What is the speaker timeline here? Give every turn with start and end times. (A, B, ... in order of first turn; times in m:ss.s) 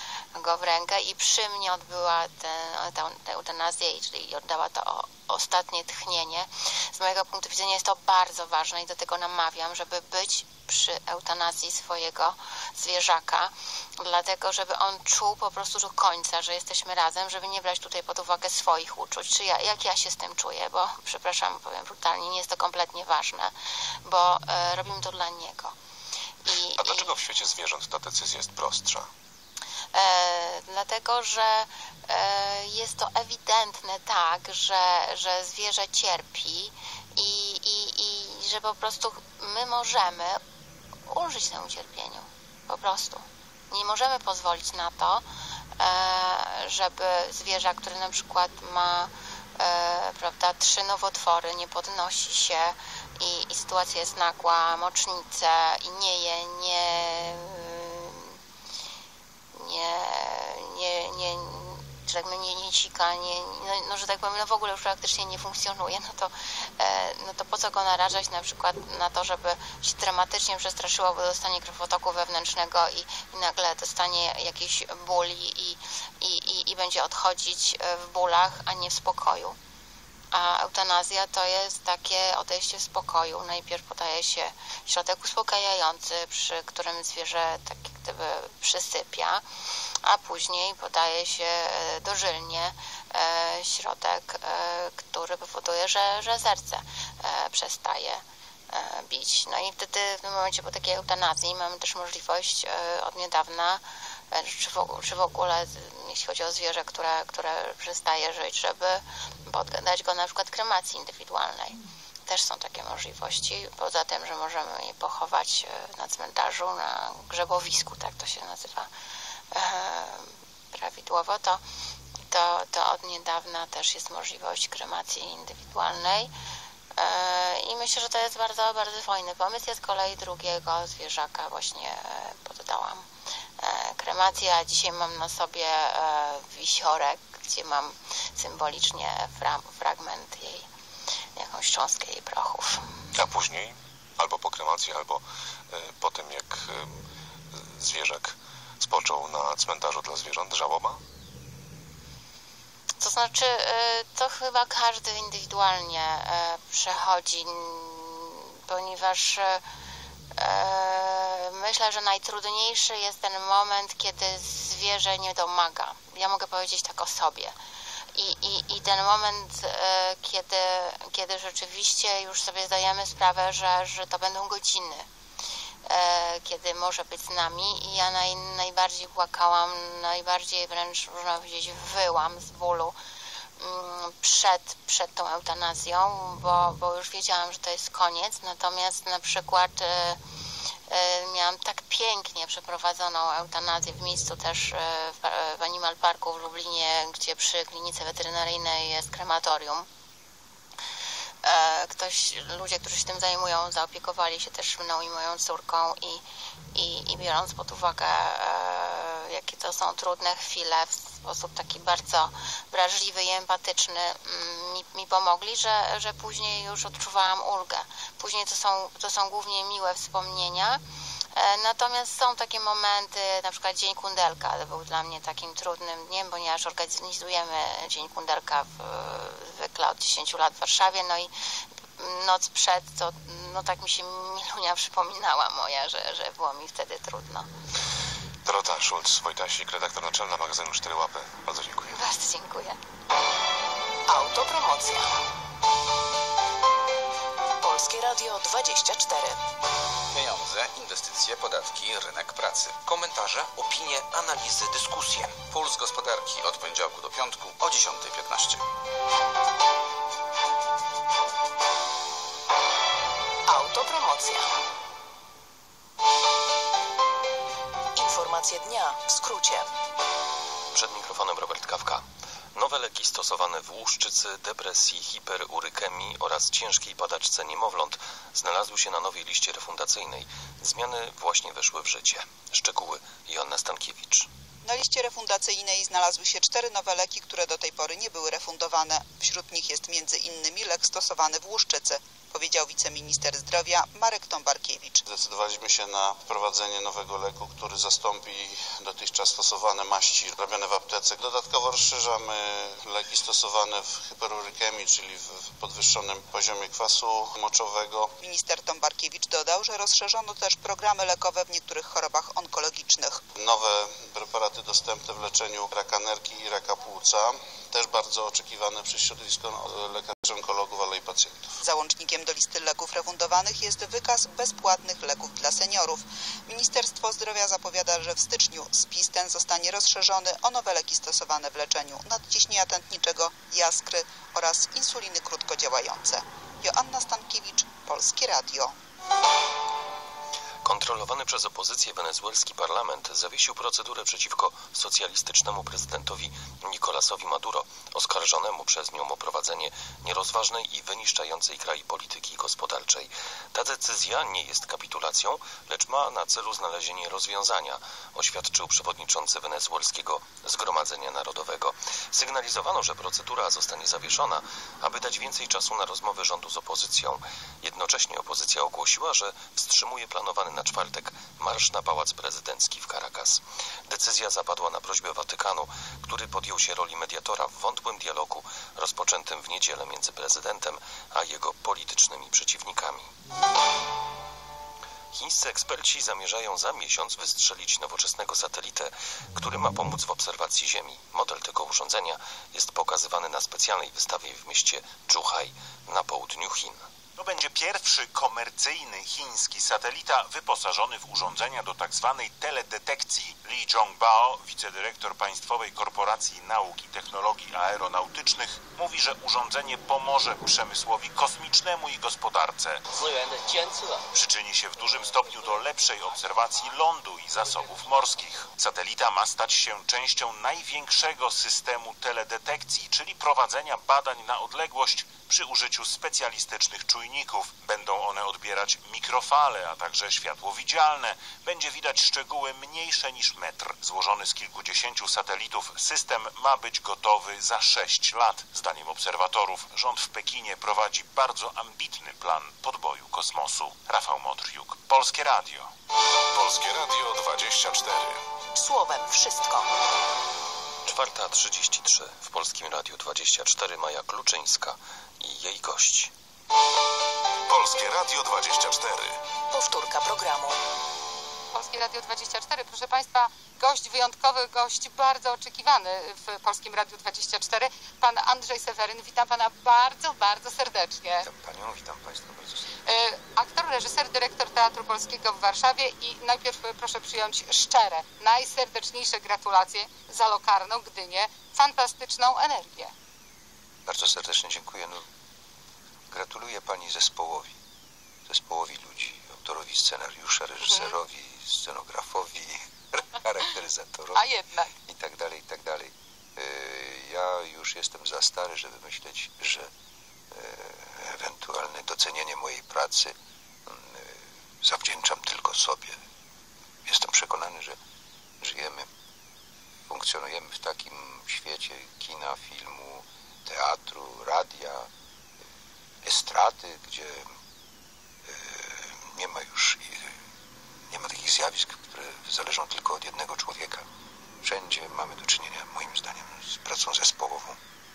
0:00.3-0:23.5 A
0:24.0-0:25.7 A
0:26.4-0:27.1 A
0:26.8-0:29.1 B
0:29.9-0:40.4 A
0:41.1-0:45.2 A
0:45.8-0:58.4 A
0:59.5-1:19.6 A
1:20.3-1:29.4 A
1:30.0-1:58.9 A
1:59.5-2:01.6 A
2:02.3-2:06.3 A
2:07.0-2:13.1 A
2:13.6-2:20.7 A
2:21.4-2:22.8 A
2:23.1-2:27.0 B
2:27.5-2:31.0 B
2:33.0-2:39.6 A
2:40.3-2:47.6 A
2:48.1-2:55.1 A
2:55.8-3:02.9 A
3:03.6-3:10.2 A
3:10.9-3:19.9 A
3:21.4-3:26.2 A
3:26.7-3:40.8 A
3:41.3-3:51.3 A
3:52.0-3:57.5 A
3:58.4-4:01.9 B
4:01.9-4:02.8 A
4:04.1-4:05.1 C
4:07.6-4:09.4 C
4:10.1-4:14.4 D
4:14.6-4:15.2 C
4:15.3-4:18.6 D
4:23.5-4:24.4 C
4:27.9-4:29.7 C
4:30.7-4:44.3 E
4:44.6-4:55.0 F
4:55.0-5:08.1 G
5:08.2-5:13.2 F
5:13.4-5:21.5 G
5:21.6-5:38.7 F
5:40.6-6:23.1 E
6:25.1-6:36.8 E
6:37.2-7:25.7 H
7:26.4-7:28.1 B
7:28.5-7:29.7 C
7:30.8-7:36.1 E
7:37.5-7:39.1 B
7:39.5-7:40.6 C
7:41.5-7:51.3 I
7:51.2-7:52.6 J
7:52.8-8:02.9 I
8:03.8-8:05.0 J
8:06.1-8:07.6 J
8:08.2-8:14.2 J
8:10.6-8:10.9 I
8:14.1-8:14.7 I
8:14.8-8:19.7 J
8:20.3-8:23.1 J
8:23.6-8:26.0 J
8:26.8-8:27.8 J
8:28.4-8:28.9 J
8:29.9-8:34.9 J
8:36.0-8:37.3 J
8:38.2-8:40.1 J
8:40.9-8:43.8 J
8:44.4-8:47.6 J